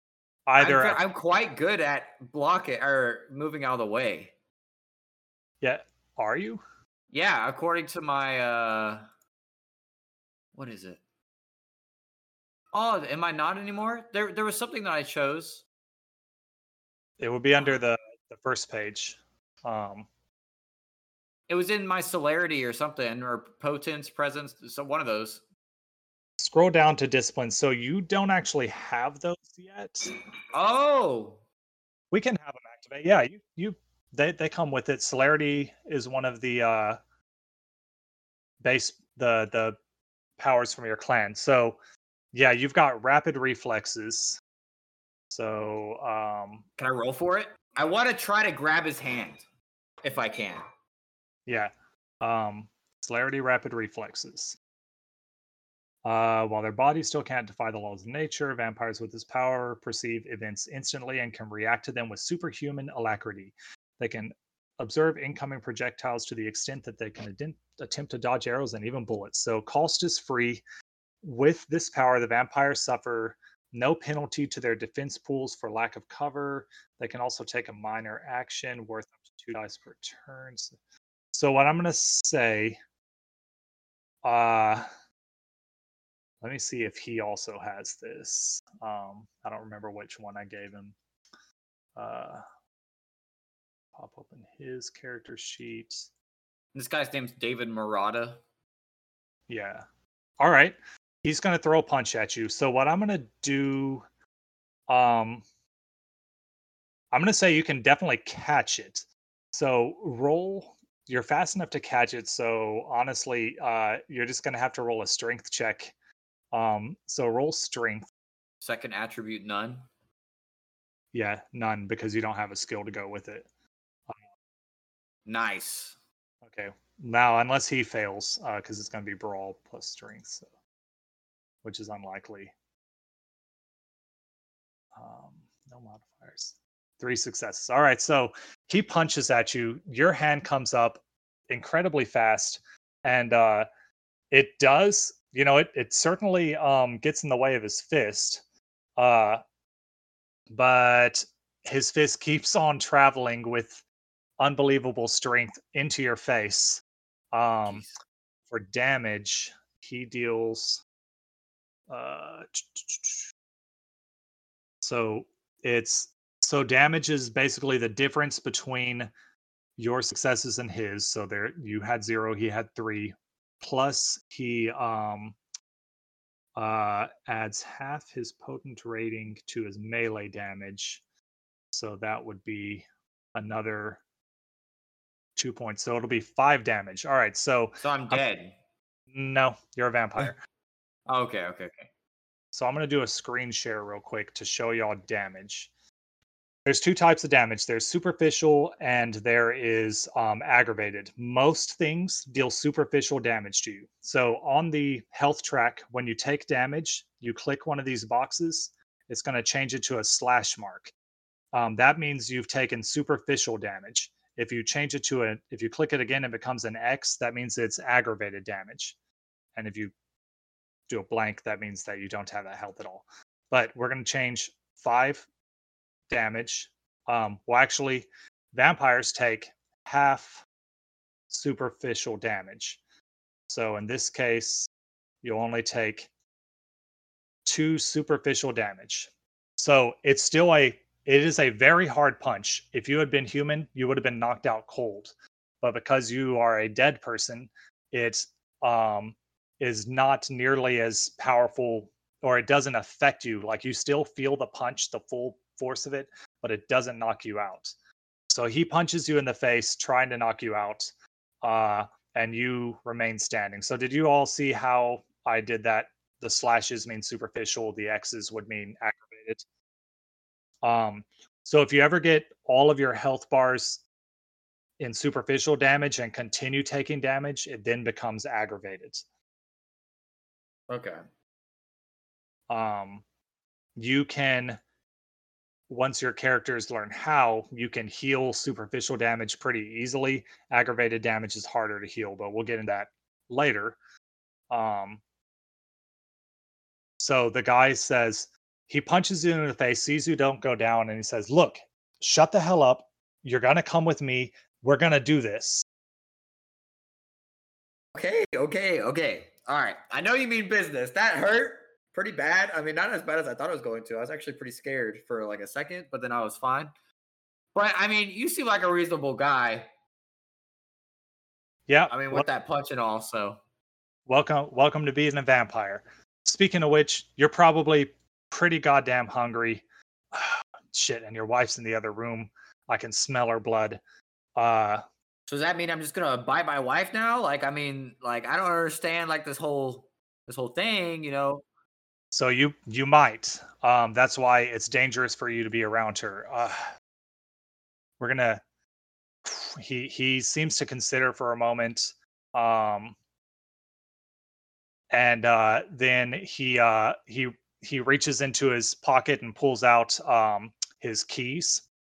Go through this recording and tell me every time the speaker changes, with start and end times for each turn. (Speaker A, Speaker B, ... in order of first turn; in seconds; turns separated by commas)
Speaker A: 0.5-1.0, Speaker B: 0.6-4.3, Speaker A: 5.6-6.6, Speaker B: 7.1-9.1, Speaker B: 10.5-11.0, Speaker B: 12.7-15.6, Speaker A: 17.2-20.1, Speaker B: 21.5-25.4, Speaker A: 26.4-30.1, Speaker B: 30.5-31.4, Speaker A: 32.1-37.0, Speaker A: 38.6-39.8, Speaker A: 40.4-41.8, Speaker A: 42.3-44.4, Speaker A: 45.3-46.6, Speaker B: 46.8-49.4, Speaker B: 50.0-50.6, Speaker A: 51.5-54.6, Speaker A: 56.0-70.6, Speaker A: 71.2-80.8, Speaker A: 81.3-82.8, Speaker A: 84.2-84.8, Speaker A: 86.4-90.9, Speaker A: 92.0-92.4, Speaker A: 94.0-96.1, Speaker B: 96.7-98.4, Speaker A: 99.5-99.8, Speaker A: 100.4-104.0, Speaker A: 104.9-105.4, Speaker A: 107.1-115.9, Speaker A: 116.5-118.1, Speaker B: 118.6-119.8, Speaker A: 121.1-123.5, Speaker B: 125.2-126.0, Speaker A: 126.4-130.5, Speaker A: 131.6-132.5, Speaker A: 134.9-143.7, Speaker A: 144.3-148.4, Speaker A: 149.0-149.4, Speaker A: 150.5-153.8, Speaker A: 154.4-156.8, Speaker A: 157.3-157.8, Speaker A: 158.5-160.8, Speaker A: 161.9-163.3, Speaker A: 164.8-169.1, Speaker A: 169.8-175.3, Speaker A: 176.6-181.0, Speaker A: 181.7-184.0, Speaker A: 185.4-188.2, Speaker B: 187.8-188.6, Speaker A: 189.1-190.4, Speaker B: 191.1-191.9, Speaker A: 192.5-195.7, Speaker A: 196.7-210.9, Speaker A: 211.5-218.9, Speaker A: 219.6-219.9, Speaker A: 220.9-225.2, Speaker A: 226.1-230.4, Speaker A: 231.3-232.8, Speaker A: 233.5-234.7, Speaker A: 235.2-236.1, Speaker A: 237.4-257.7, Speaker A: 258.3-260.9, Speaker A: 261.4-269.4, Speaker A: 270.6-273.8, Speaker A: 274.8-279.0, Speaker B: 280.7-281.0, Speaker A: 282.5-283.0, Speaker A: 283.8-284.6, Speaker A: 285.7-293.8, Speaker A: 294.5-295.0, Speaker A: 297.0-305.6, Speaker B: 307.9-316.7, Speaker B: 317.5-319.7, Speaker A: 321.7-322.2, Speaker B: 321.9-323.4, Speaker A: 324.1-333.8, Speaker A: 334.4-334.8, Speaker B: 335.3-341.4, Speaker A: 342.1-346.7, Speaker A: 348.0-348.4, Speaker A: 349.2-352.9, Speaker A: 354.9-361.6